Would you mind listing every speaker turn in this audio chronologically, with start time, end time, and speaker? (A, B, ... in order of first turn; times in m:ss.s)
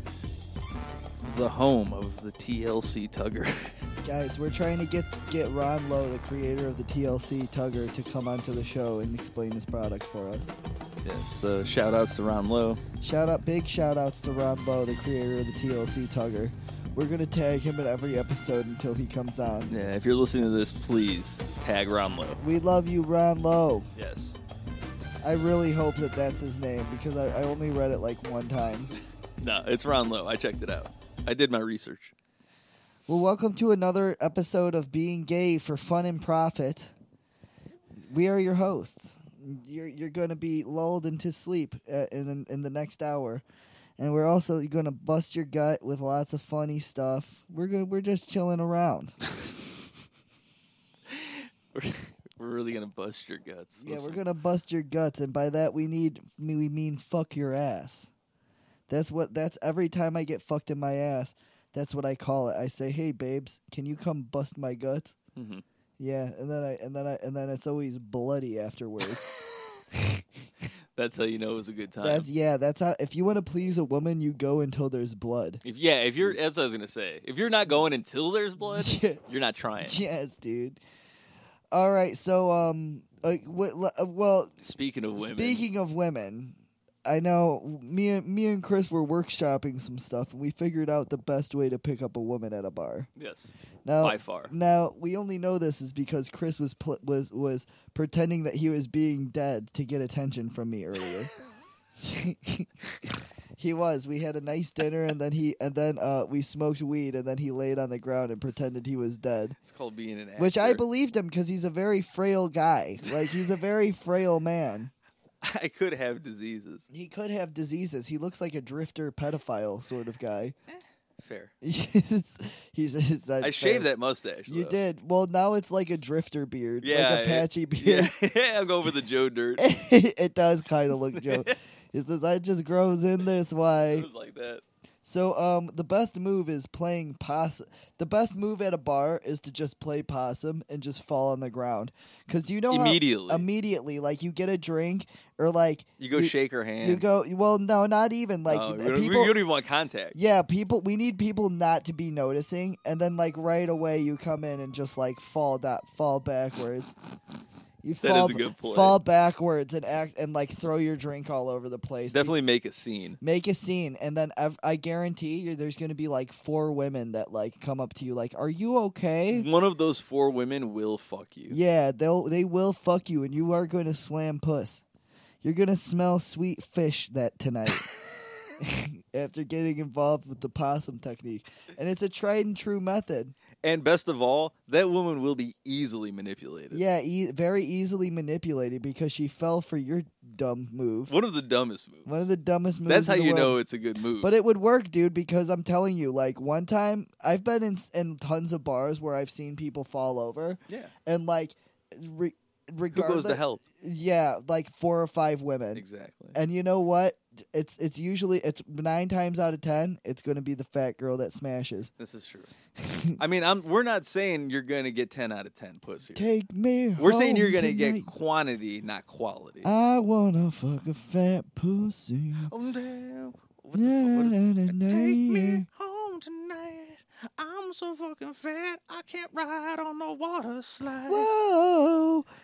0:01.2-0:03.8 A
0:04.0-0:10.6 B
0:11.0-0:12.8 A
0:13.0-0:19.7 B
0:19.7-0:22.4 A
0:22.4-0:23.9 B
0:24.0-0:24.4 A
0:25.2-0:28.9 B
0:29.4-0:32.1 A
0:33.1-0:36.9 B
0:38.0-0:43.4 B
0:44.0-0:49.2 B
0:51.1-0:54.2 A
0:53.8-0:58.1 B
0:58.9-1:05.2 B
1:05.4-1:05.6 A
1:06.0-1:09.3 B
1:09.9-1:10.2 B
1:11.0-1:12.3 A
1:12.0-1:15.6 B
1:15.6-1:20.0 A
1:18.6-1:19.2 B
1:19.8-1:20.8 B
1:21.7-1:24.6 B
1:24.6-1:25.6 A
1:25.2-1:33.1 B
1:33.2-1:34.5 A
1:33.8-1:41.3 B
1:42.0-1:42.7 B
1:43.6-1:49.6 B
1:49.6-1:50.8 A
1:50.4-1:54.9 B
1:55.4-1:56.9 A
1:56.9-2:00.6 B
2:01.2-2:01.5 A
2:01.6-2:03.9 B
2:03.4-2:04.8 A
2:04.5-2:08.1 B
2:06.8-2:09.6 A
2:09.6-2:14.1 B
2:11.1-2:11.5 A
2:13.9-2:14.6 A
2:15.0-2:29.4 B
2:22.7-2:23.5 A
2:26.0-2:27.0 A
2:28.5-2:30.2 A
2:30.1-2:36.9 B
2:37.8-2:42.3 B
2:38.0-2:39.0 A
2:42.1-2:43.2 A
2:43.2-2:49.5 B
2:49.3-2:51.6 A
2:51.5-2:54.8 B
2:55.4-2:57.9 B
2:58.6-3:03.3 B
3:03.6-3:06.8 A
3:06.7-3:11.1 B
3:11.1-3:12.3 A
3:12.0-3:13.6 B
3:12.9-3:14.3 A
3:14.2-3:31.9 B
3:22.9-3:23.6 A
3:25.7-3:26.4 A
3:32.0-3:32.5 A
3:32.8-3:33.2 B
3:33.2-3:36.3 A
3:36.1-3:38.1 B
3:37.0-3:39.7 A
3:39.6-3:42.5 B
3:42.5-3:51.3 A
3:43.7-3:45.6 B
3:51.1-3:52.3 B